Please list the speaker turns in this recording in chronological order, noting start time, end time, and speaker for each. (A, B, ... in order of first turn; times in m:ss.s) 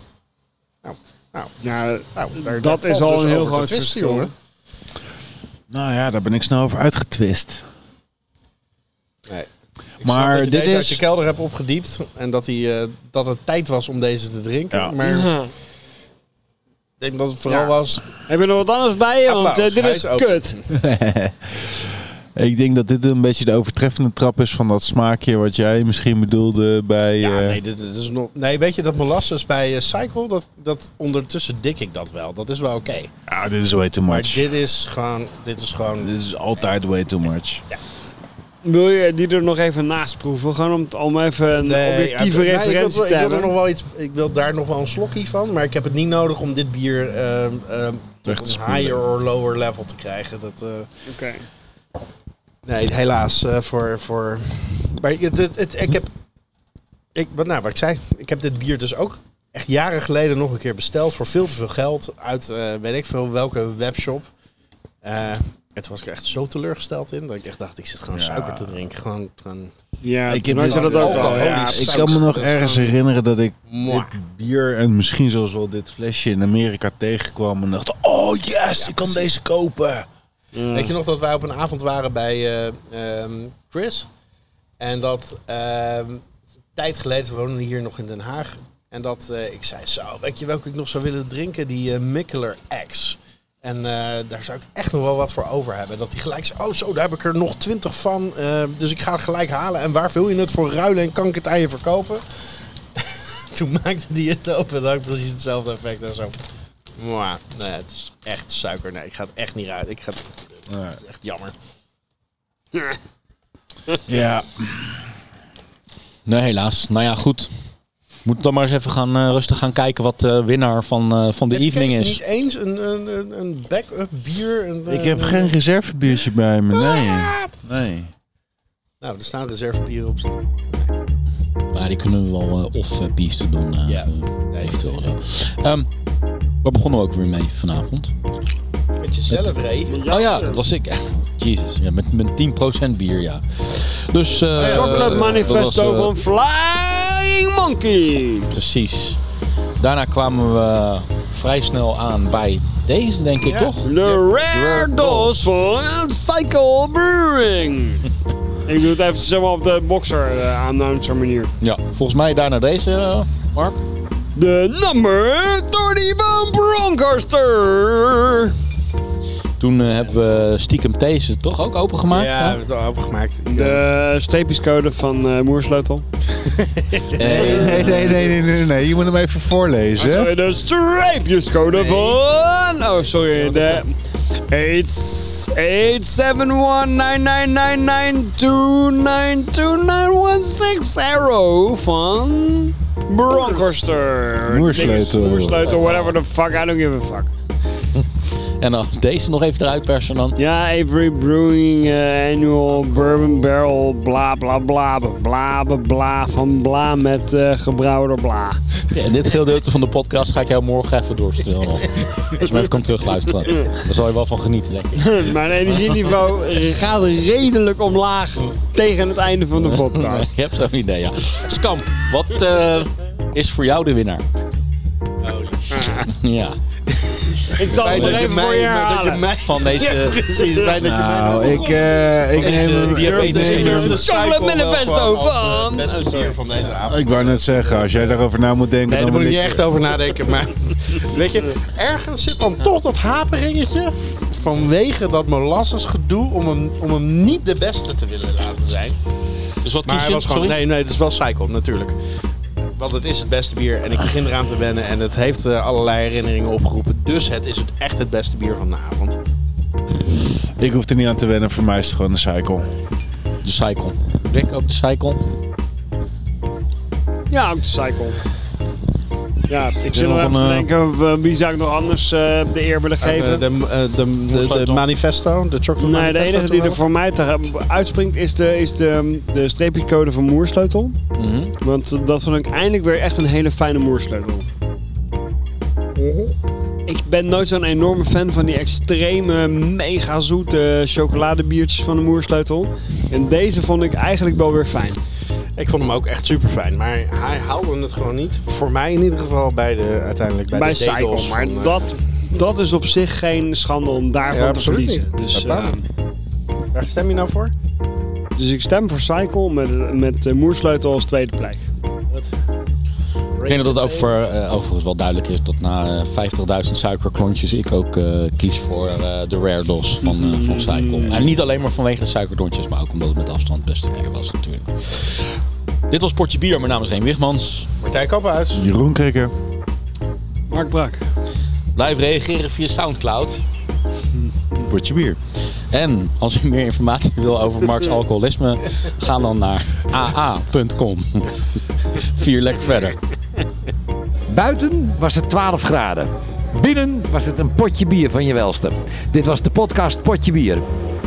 0:00.8-0:01.5 A
0:01.6-0:04.3 B
0:02.1-0:04.3 A
0:05.7-0:07.6 C
0:10.0-0:15.3 A
0:10.0-0:11.0 C
0:15.0-0:15.5 B
0:17.0-0:18.0 A
0:18.3-0:20.6 B
0:19.2-0:20.6 A
0:20.7-0:27.6 C
0:27.2-0:33.2 A
0:33.3-0:34.4 C
0:34.1-0:36.1 A
0:36.0-0:37.6 C
0:38.6-0:43.5 B
0:41.6-0:50.9 A
0:48.2-0:49.0 C
0:51.1-0:51.4 B
0:52.6-0:56.1 A
0:57.1-1:04.3 A
1:05.0-1:09.7 A
1:08.1-1:08.8 C
1:10.0-1:12.4 B
1:10.3-1:20.0 C
1:10.5-1:12.9 A
1:13.7-1:14.2 A
1:18.7-1:19.3 A
1:20.5-1:20.9 B
1:20.7-1:24.1 A
1:24.8-1:46.4 A
1:47.0-1:51.5 A
1:50.7-1:51.0 C
1:54.1-1:55.0 C
1:56.2-1:57.5 D
1:58.2-2:02.2 D
2:01.5-2:05.6 A
2:04.9-2:08.1 C
2:06.1-2:07.6 A
2:09.0-2:10.9 A
2:11.7-2:15.9 D
2:13.8-2:15.0 A
2:16.6-2:18.1 D
2:19.0-2:20.0 A
2:19.3-2:19.5 D
2:19.9-2:20.6 B
2:20.1-2:26.1 D
2:24.5-2:28.5 B
2:24.6-2:25.3 A
2:24.8-2:25.4 C
2:28.5-2:29.2 D
2:29.8-2:35.5 D
2:33.4-2:33.7 A
2:33.8-2:38.0 B
2:38.6-2:41.5 B
2:41.6-2:43.8 D
2:44.3-2:48.6 B
2:49.6-2:52.6 D
2:52.1-2:53.8 A
2:53.4-2:56.0 B
2:56.4-2:58.2 A
2:57.2-2:58.1 D
2:57.2-3:00.3 C
3:00.0-3:17.3 B
3:01.7-3:02.2 A
3:03.4-3:03.8 A
3:14.4-3:15.6 C
3:15.5-3:16.2 D
3:18.6-3:20.4 D
3:20.4-3:28.7 B
3:28.9-3:35.3 D
3:33.5-3:33.7 B
3:35.0-3:40.3 B
3:39.6-3:44.2 D
3:45.2-3:46.1 A
3:45.7-3:46.1 B
3:46.1-3:46.6 D
3:46.9-3:58.3 A
3:47.4-3:49.3 B
3:47.7-3:48.2 D
3:49.4-3:50.3 D
3:50.8-3:54.0 C
3:52.3-3:54.0 D
3:53.3-3:56.4 B
3:56.8-3:59.7 C
3:58.8-4:09.0 A
4:09.6-4:10.6 D
4:09.8-4:12.0 A
4:12.7-4:19.2 A
4:20.4-4:22.7 C
4:23.4-4:25.2 D
4:27.3-4:28.2 B
4:29.5-4:33.4 B
4:29.9-4:30.7 D
4:33.0-4:36.8 A
4:34.3-4:34.8 D
4:35.8-4:41.0 B
4:41.2-4:41.5 D
4:41.6-4:44.4 B
4:46.0-4:46.3 A
4:46.9-4:55.0 B
4:55.6-5:01.9 A
5:00.5-5:05.8 B
5:04.3-5:05.8 A
5:06.7-5:07.5 A
5:08.4-5:11.6 B
5:13.4-5:14.1 A
5:13.4-5:25.2 D
5:20.0-5:21.3 B
5:25.9-5:27.7 D
5:27.8-5:28.6 A
5:28.5-5:29.3 C
5:30.5-5:31.0 B
5:31.7-5:33.4 D
5:34.6-5:35.2 C
5:35.7-5:43.0 D
5:44.3-5:50.6 E